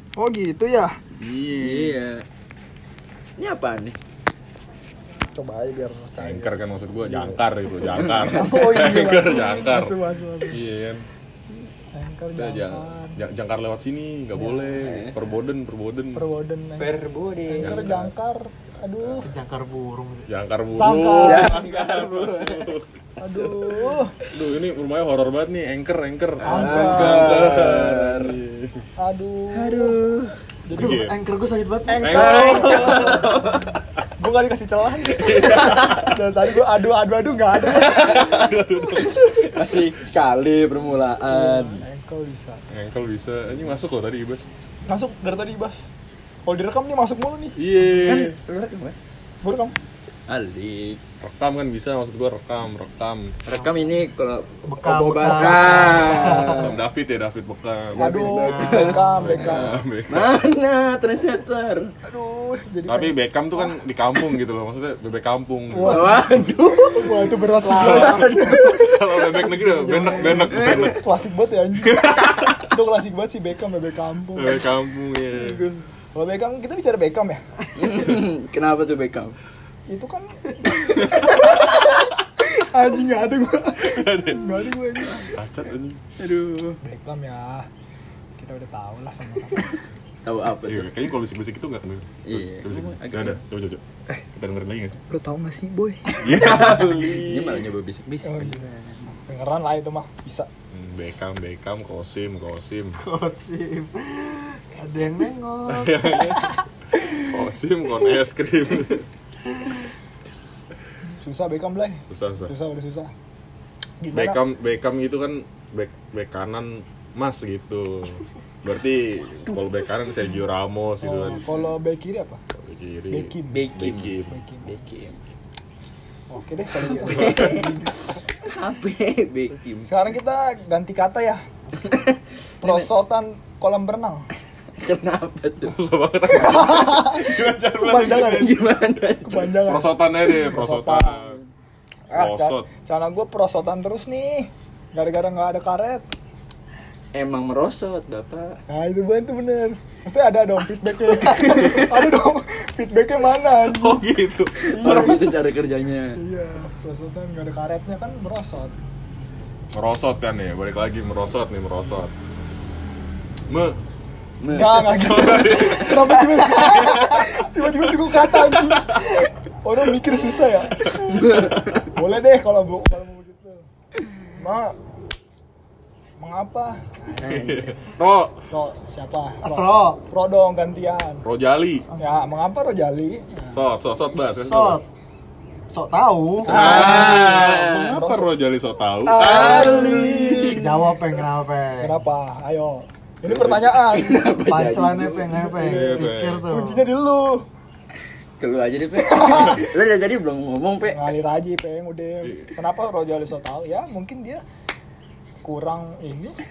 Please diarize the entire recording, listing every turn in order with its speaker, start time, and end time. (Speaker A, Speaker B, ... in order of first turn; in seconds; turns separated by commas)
Speaker A: 0.2-0.9, Speaker B: 1.2-2.2, Speaker C: 1.6-1.9, Speaker B: 3.4-4.0, Speaker A: 5.3-6.5, Speaker C: 6.2-9.9, Speaker A: 7.0-7.4, Speaker A: 8.3-10.7, Speaker C: 10.5-11.1, Speaker A: 11.9-13.2, Speaker C: 12.3-16.3, Speaker A: 14.4-14.7, Speaker B: 14.8-15.2, Speaker A: 16.1-19.4, Speaker B: 16.8-18.0, Speaker C: 17.6-18.1, Speaker C: 19.0-19.3, Speaker D: 19.2-20.3, Speaker C: 20.3-22.9, Speaker A: 20.7-21.6, Speaker B: 21.2-24.3, Speaker A: 23.2-24.1, Speaker C: 24.3-28.8, Speaker B: 26.4-28.4, Speaker D: 26.4-27.5, Speaker A: 26.6-27.4, Speaker A: 29.0-30.0, Speaker B: 29.6-30.4, Speaker A: 30.7-31.0, Speaker C: 30.7-31.2, Speaker D: 30.7-32.5, Speaker A: 31.9-38.5, Speaker C: 32.0-33.1, Speaker B: 32.2-33.7, Speaker C: 35.2-36.0, Speaker B: 35.4-36.0, Speaker B: 37.8-41.9, Speaker C: 38.1-39.3, Speaker A: 41.3-42.6, Speaker C: 42.7-44.5, Speaker A: 44.9-45.9, Speaker A: 46.5-48.2, Speaker C: 47.6-48.4, Speaker B: 48.0-49.0, Speaker A: 49.4-49.7, Speaker B: 50.3-51.0, Speaker C: 51.2-53.3, Speaker B: 53.5-56.8, Speaker D: 54.6-56.8, Speaker A: 55.4-56.5, Speaker C: 56.4-58.3, Speaker A: 57.9-59.8, Speaker B: 58.1-61.9, Speaker D: 58.1-59.2, Speaker C: 59.2-60.5, Speaker A: 62.1-63.8, Speaker C: 62.9-66.3, Speaker A: 65.7-66.3, Speaker B: 65.8-69.1, Speaker A: 66.9-74.7, Speaker D: 67.6-68.5, Speaker C: 67.7-71.1, Speaker B: 70.5-70.9, Speaker C: 71.9-72.5, Speaker C: 74.3-75.7, Speaker A: 75.3-77.4, Speaker B: 77.8-79.4, Speaker A: 79.9-85.4, Speaker C: 83.8-86.0, Speaker B: 86.2-86.8, Speaker A: 86.8-87.7, Speaker A: 88.4-89.8, Speaker B: 90.2-90.9, Speaker C: 90.6-93.8, Speaker B: 92.2-93.4, Speaker C: 94.3-95.0, Speaker A: 95.1-96.5, Speaker C: 96.2-97.7, Speaker B: 96.3-99.2, Speaker A: 98.2-98.7, Speaker A: 99.3-100.5, Speaker C: 100.7-103.0, Speaker D: 103.0-106.2, Speaker C: 105.7-106.6, Speaker C: 107.2-109.1, Speaker A: 111.1-113.1, Speaker C: 112.1-112.5, Speaker A: 114.0-114.4, Speaker C: 114.1-121.5, Speaker A: 121.0-122.4, Speaker C: 122.5-124.3, Speaker A: 123.1-124.8, Speaker B: 123.5-124.1, Speaker B: 124.7-125.2, Speaker A: 126.3-128.1, Speaker B: 126.9-127.8, Speaker C: 127.1-127.7, Speaker B: 128.4-129.9, Speaker A: 129.9-131.4, Speaker B: 131.8-132.9, Speaker A: 132.6-134.3, Speaker B: 134.8-135.8, Speaker C: 135.6-138.6, Speaker A: 136.2-138.5, Speaker B: 138.1-139.5, Speaker A: 139.2-141.3, Speaker C: 139.7-141.4, Speaker B: 141.2-141.5, Speaker A: 142.1-146.1, Speaker C: 142.1-142.7, Speaker B: 147.1-148.6, Speaker A: 148.7-154.1, Speaker B: 151.2-151.9, Speaker B: 153.7-156.2, Speaker A: 154.7-155.4, Speaker A: 156.2-158.8, Speaker C: 159.7-162.1, Speaker C: 163.5-163.8, Speaker B: 164.4-164.9, Speaker A: 164.5-173.6, Speaker C: 164.8-167.3, Speaker C: 168.4-169.0, Speaker B: 171.0-171.8, Speaker A: 174.3-174.7, Speaker A: 176.2-177.4, Speaker C: 177.2-178.4, Speaker B: 177.2-177.8, Speaker A: 178.5-181.2, Speaker D: 179.4-180.0, Speaker C: 181.2-181.9, Speaker A: 181.9-183.6, Speaker C: 183.5-184.8, Speaker D: 184.2-184.9, Speaker D: 185.7-186.6, Speaker A: 186.4-188.3, Speaker B: 186.5-187.9, Speaker C: 186.5-190.5, Speaker A: 189.0-191.1, Speaker B: 189.2-190.6, Speaker D: 190.6-192.0, Speaker A: 191.8-194.5, Speaker B: 193.3-195.5, Speaker D: 194.4-196.9, Speaker A: 195.3-197.4, Speaker C: 195.6-196.5, Speaker B: 198.4-201.1, Speaker A: 199.1-199.6, Speaker A: 200.9-204.4, Speaker C: 202.2-202.5, Speaker A: 205.4-206.4